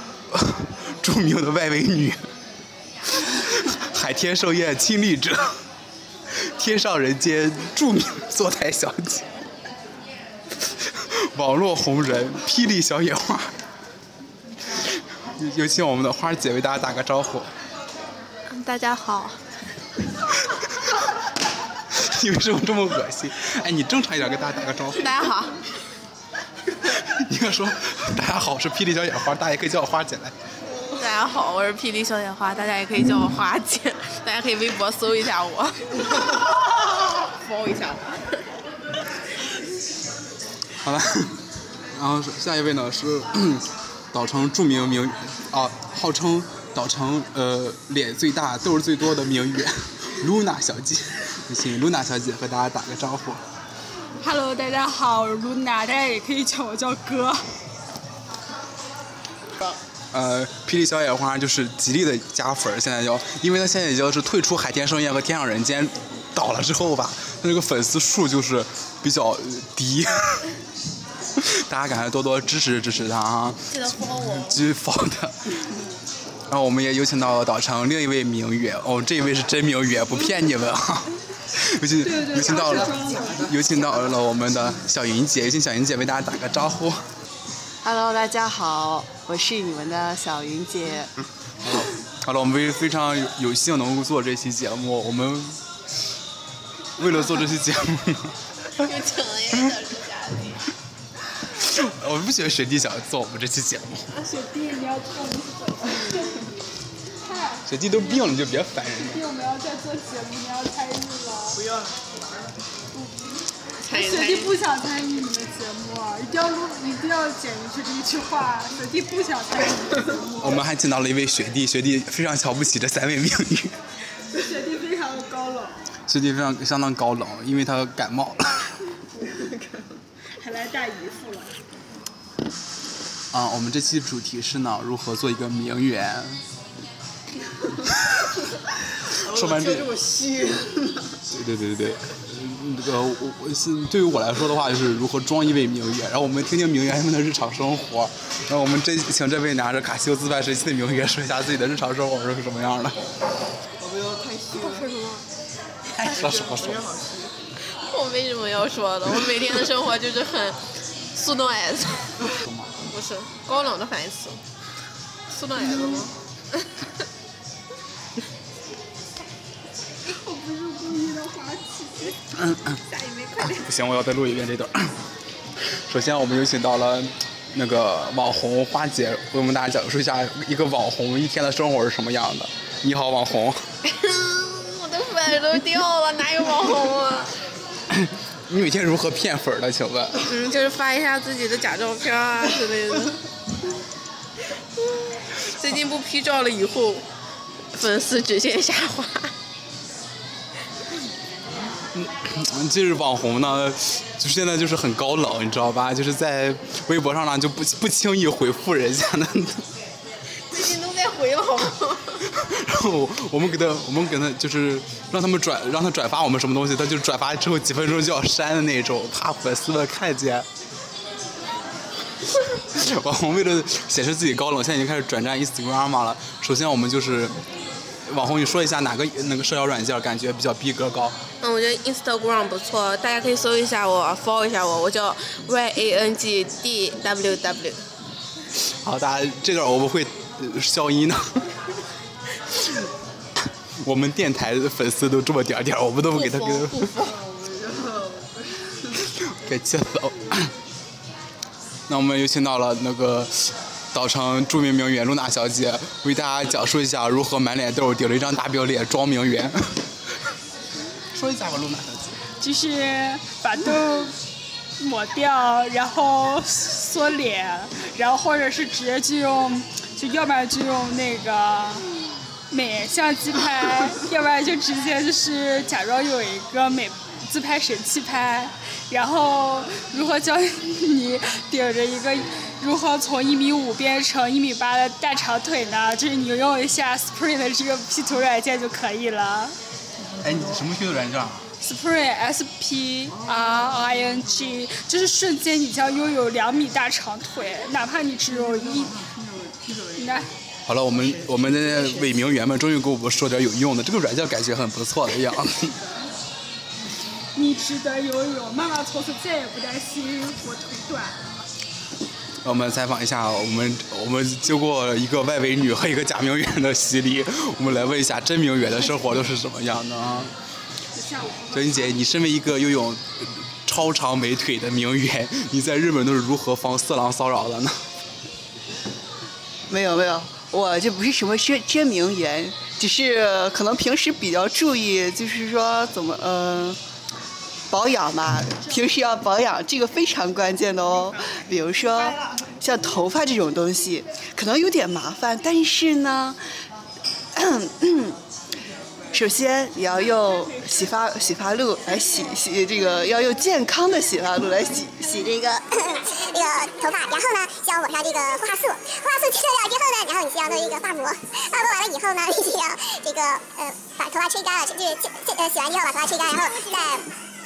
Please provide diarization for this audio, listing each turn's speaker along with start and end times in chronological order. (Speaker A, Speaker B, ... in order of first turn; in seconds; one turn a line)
Speaker A: 0.3-2.2
Speaker A: 3.5-5.6
Speaker A: 6.3-9.3
Speaker A: 11.3-13.5
Speaker A: 15.3-17.5
Speaker B: 18.5-19.4
Speaker A: 21.9-25.1
Speaker B: 24.9-25.6
Speaker A: 26.9-30.3
Speaker B: 30.9-36.4
Speaker B: 37.1-38.4
Speaker A: 40.8-41.4
Speaker A: 41.9-53.4
Speaker C: 54.2-57.5
Speaker A: 60.1-70.5
Speaker A: 71.4-73.7
Speaker B: 73.7-74.6
Speaker A: 74.5-75.4
Speaker A: 76.5-87.0
Speaker C: 82.0-83.5
Speaker D: 87.8-91.1
Speaker A: 91.6-95.6
Speaker A: 97.0-98.3
Speaker B: 98.8-100.6
Speaker A: 101.6-104.1
Speaker C: 104.2-106.5
Speaker C: 107.2-111.8
Speaker A: 107.7-109.2
Speaker B: 113.8-114.5
Speaker C: 113.9-120.7
Speaker A: 120.4-123.8
Speaker C: 124.3-125.8
Speaker A: 126.1-128.7
Speaker C: 130.4-131.6
Speaker A: 133.3-136.4
Speaker A: 139.2-140.1
Speaker A: 141.2-153.0
Speaker D: 153.8-154.7
Speaker B: 154.6-155.2
Speaker A: 155.9-156.9
Speaker D: 156.9-157.3
Speaker B: 157.7-160.6
Speaker B: 161.1-162.2
Speaker A: 162.4-162.7
Speaker B: 162.9-164.4
Speaker B: 165.3-166.7
Speaker C: 170.1-172.1
Speaker A: 172.3-172.8
Speaker B: 172.8-173.7
Speaker A: 173.4-175.0
Speaker A: 175.9-183.7
Speaker B: 183.8-187.3
Speaker A: 187.9-190.2
Speaker B: 190.2-193.2
Speaker B: 194.8-197.0
Speaker B: 197.7-199.3
Speaker A: 201.9-209.7
Speaker B: 210.5-212.2
Speaker A: 212.3-220.5
Speaker A: 222.7-227.3
Speaker A: 228.1-231.2
Speaker B: 231.4-237.8
Speaker A: 238.8-241.4
Speaker A: 243.8-246.9
Speaker B: 246.1-247.3
Speaker D: 247.7-248.0
Speaker A: 249.2-250.5
Speaker A: 251.9-259.8
Speaker A: 261.1-262.2
Speaker C: 262.4-264.2
Speaker C: 264.8-271.9
Speaker C: 272.5-289.5
Speaker A: 290.2-291.4
Speaker C: 291.6-299.1
Speaker C: 299.8-300.3
Speaker A: 300.6-305.8
Speaker C: 307.3-311.4
Speaker A: 312.4-320.3
Speaker C: 320.9-322.0
Speaker A: 321.5-327.8
Speaker D: 329.7-336.8
Speaker D: 337.7-346.4
Speaker D: 347.3-348.2
Speaker D: 349.1-355.7
Speaker E: 355.9-367.1